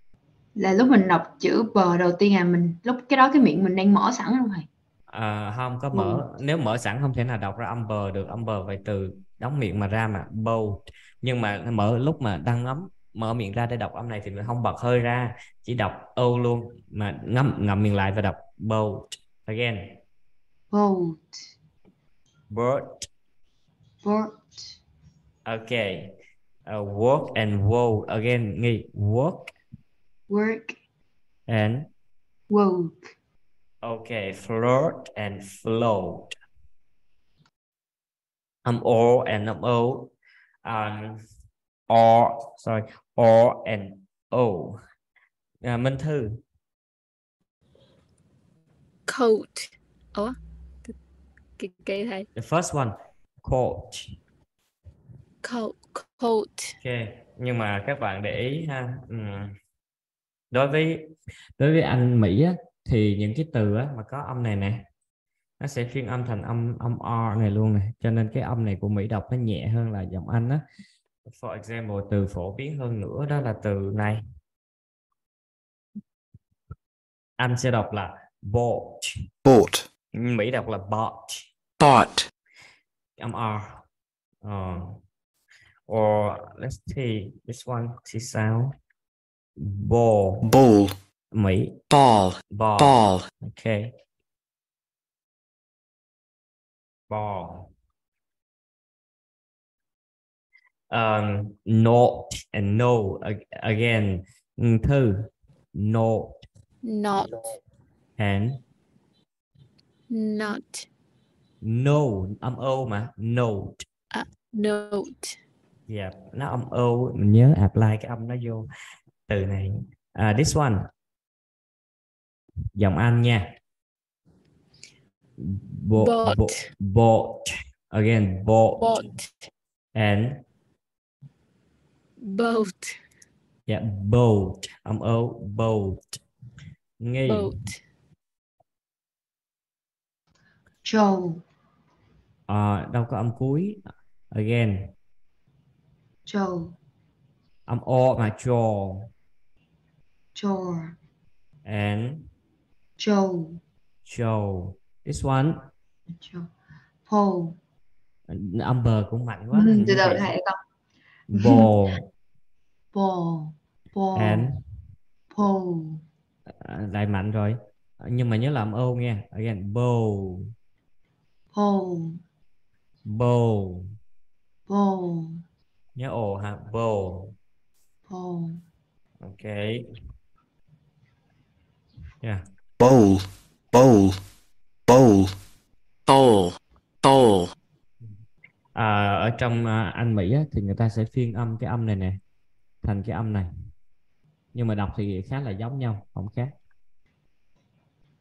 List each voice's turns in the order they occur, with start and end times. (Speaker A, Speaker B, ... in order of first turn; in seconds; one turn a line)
Speaker A: 0.6-4.7
Speaker B: 5.1-20.0
Speaker A: 5.9-6.2
Speaker A: 20.7-21.5
Speaker B: 22.5-23.1
Speaker A: 24.0-24.7
Speaker B: 25.4-26.1
Speaker B: 26.7-29.5
Speaker A: 30.3-30.8
Speaker B: 31.5-31.9
Speaker A: 32.5-33.1
Speaker B: 33.8-36.3
Speaker B: 38.6-40.1
Speaker B: 40.6-41.2
Speaker B: 41.9-44.8
Speaker B: 45.6-46.4
Speaker C: 49.1-51.0
Speaker C: 51.6-52.3
Speaker B: 52.3-54.2
Speaker C: 55.4-56.8
Speaker B: 56.8-59.5
Speaker B: 60.5-64.8
Speaker B: 65.6-70.6
Speaker B: 71.3-74.2
Speaker B: 77.4-79.1
Speaker D: 79.4-79.8
Speaker B: 80.1-81.5
Speaker D: 81.8-82.3
Speaker B: 83.2-83.8
Speaker B: 84.4-85.0
Speaker B: 85.9-88.7
Speaker B: 89.6-90.5
Speaker D: 90.5-90.9
Speaker B: 91.3-91.8
Speaker D: 91.9-93.2
Speaker B: 92.5-93.9
Speaker B: 97.1-97.7
Speaker B: 100.9-106.4
Speaker C: 106.8-107.4
Speaker B: 108.2-108.6
Speaker C: 110.1-110.9
Speaker B: 111.6-113.8
Speaker C: 114.1-115.4
Speaker B: 115.9-118.7
Speaker B: 119.3-120.9
Speaker B: 122.7-123.5
Speaker B: 125.4-128.9
Speaker C: 125.9-126.6
Speaker C: 128.8-129.4
Speaker B: 129.9-130.4
Speaker C: 132.2-133.0
Speaker B: 133.7-136.2
Speaker B: 137.0-137.5
Speaker C: 137.2-137.8
Speaker A: 140.8-141.4
Speaker B: 142.5-143.8
Speaker B: 144.3-144.9
Speaker A: 146.2-146.8
Speaker B: 147.7-149.1
Speaker A: 150.3-151.0
Speaker B: 151.6-152.3
Speaker A: 153.0-153.6
Speaker B: 154.0-155.7
Speaker A: 156.2-156.5
Speaker A: 157.1-157.6
Speaker B: 158.3-160.3
Speaker A: 159.5-160.6
Speaker B: 161.3-162.1
Speaker A: 161.4-161.7
Speaker A: 162.9-164.5
Speaker B: 164.1-164.6
Speaker A: 165.3-166.0
Speaker B: 166.6-170.5
Speaker A: 171.5-172.2
Speaker B: 173.0-173.9
Speaker A: 174.7-175.4
Speaker B: 175.9-177.3
Speaker A: 178.1-178.6
Speaker B: 179.2-179.8
Speaker D: 182.8-183.2
Speaker D: 183.7-184.2
Speaker D: 184.9-185.3
Speaker D: 186.1-187.5
Speaker B: 188.7-192.2
Speaker B: 192.8-193.5
Speaker B: 194.5-196.5